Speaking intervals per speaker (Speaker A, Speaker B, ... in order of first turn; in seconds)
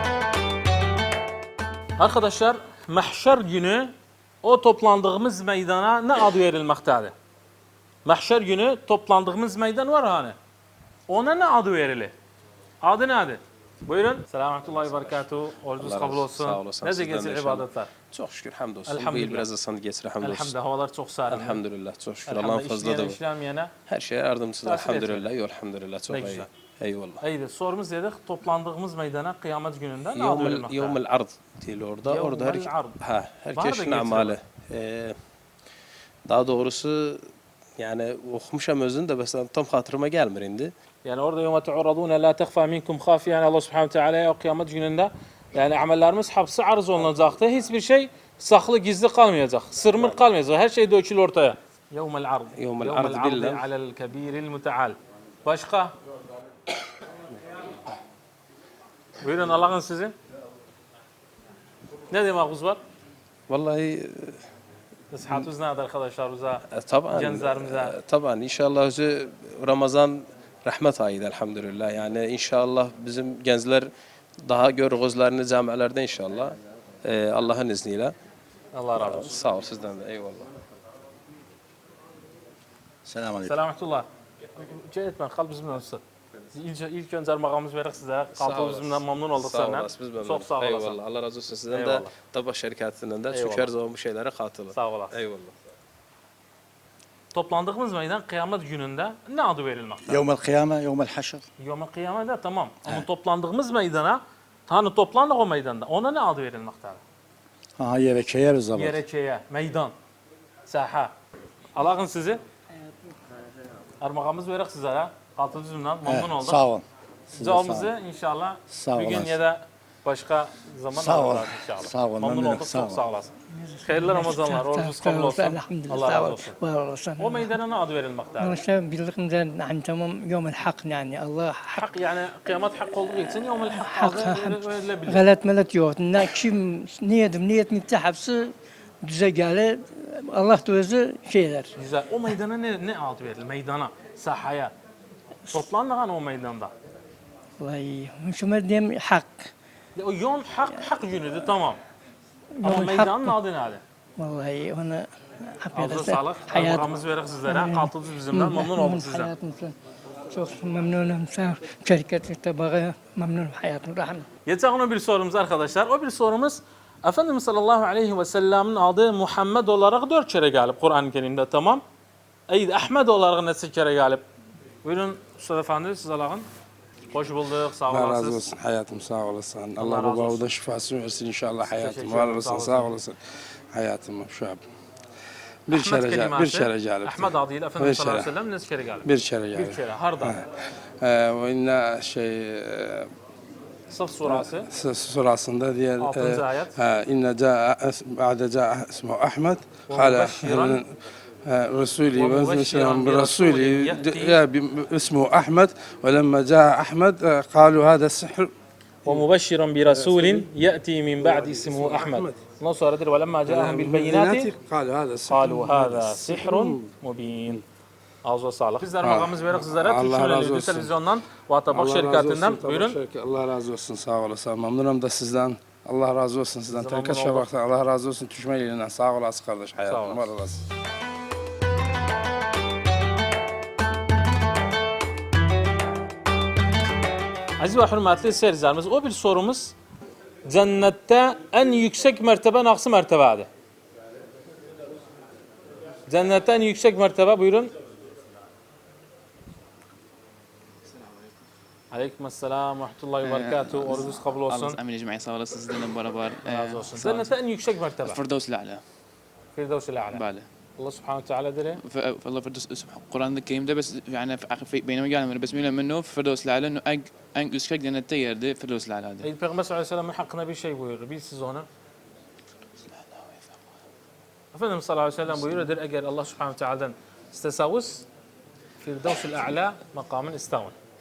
Speaker A: 2.0-3.9, 4.4-7.1, 8.0-10.3, 11.1-12.1, 12.8-17.9, 18.9-19.5, 20.2-21.6, 22.3-23.7, 24.6-25.3, 26.1-26.5, 27.2-31.0, 32.1-33.0, 33.5-34.4, 41.0-55.9, 59.2-60.1, 62.1-62.8, 65.1-67.9, 78.7-79.3, 83.4-84.1, 84.6-86.0, 86.5-91.0, 91.7-92.1, 93.3-93.7, 94.7-95.2, 97.3-100.2, 101.6-107.0, 108.7-109.9, 110.7-111.1, 111.7-112.4, 114.0-116.6, 117.3-123.3, 123.8-126.6, 127.2-128.6, 131.7-135.2, 141.8-144.7, 145.5-146.7, 149.9-151.8, 152.6-153.8, 155.7-159.3, 164.4-171.8, 172.5-174.2, 174.8-176.4, 177.1-178.5, 179.8-180.4, 181.8-182.9, 185.7-190.4, 193.9-194.7, 196.0-196.8, 199.9-200.8, 202.1-204.4, 209.1-214.5, 215.3-217.6, 218.2-223.0, 226.7-227.5, 229.8-230.3, 237.6-239.7, 240.5-243.5, 246.1-247.7, 251.9-254.8, 256.4-258.2, 259.5-260.2, 260.8-261.8, 269.2-271.7, 274.5-278.1, 278.8-280.8
Speaker B: 15.8-20.5, 21.3-23.2, 23.9-27.2, 30.1-35.2, 36.3-37.2, 37.8-40.7, 52.6-53.6, 63.5-64.4, 66.7-73.9, 74.4-78.1, 79.0-80.5, 88.3-95.5
Speaker C: 83.0-83.5, 100.1-101.4, 107.8-109.0, 116.0-116.8, 117.4-117.9, 118.8-119.2, 121.0-122.8
Speaker D: 123.5-127.5, 128.4-132.0, 133.3-138.5, 139.0-141.7, 147.6-149.5, 152.6-153.3, 154.2-156.9, 157.4-159.7, 160.3-164.3
Speaker E: 177.9-183.2, 183.7-184.6, 185.7-188.3, 189.0-190.5, 191.0-193.1, 194.2-200.9, 201.4-208.5, 209.8-210.5, 211.2-212.4, 213.5-216.9, 219.0-220.9, 221.7-230.6
Speaker F: 253.2-257.3, 258.0-258.8, 260.1-260.5, 261.8-269.3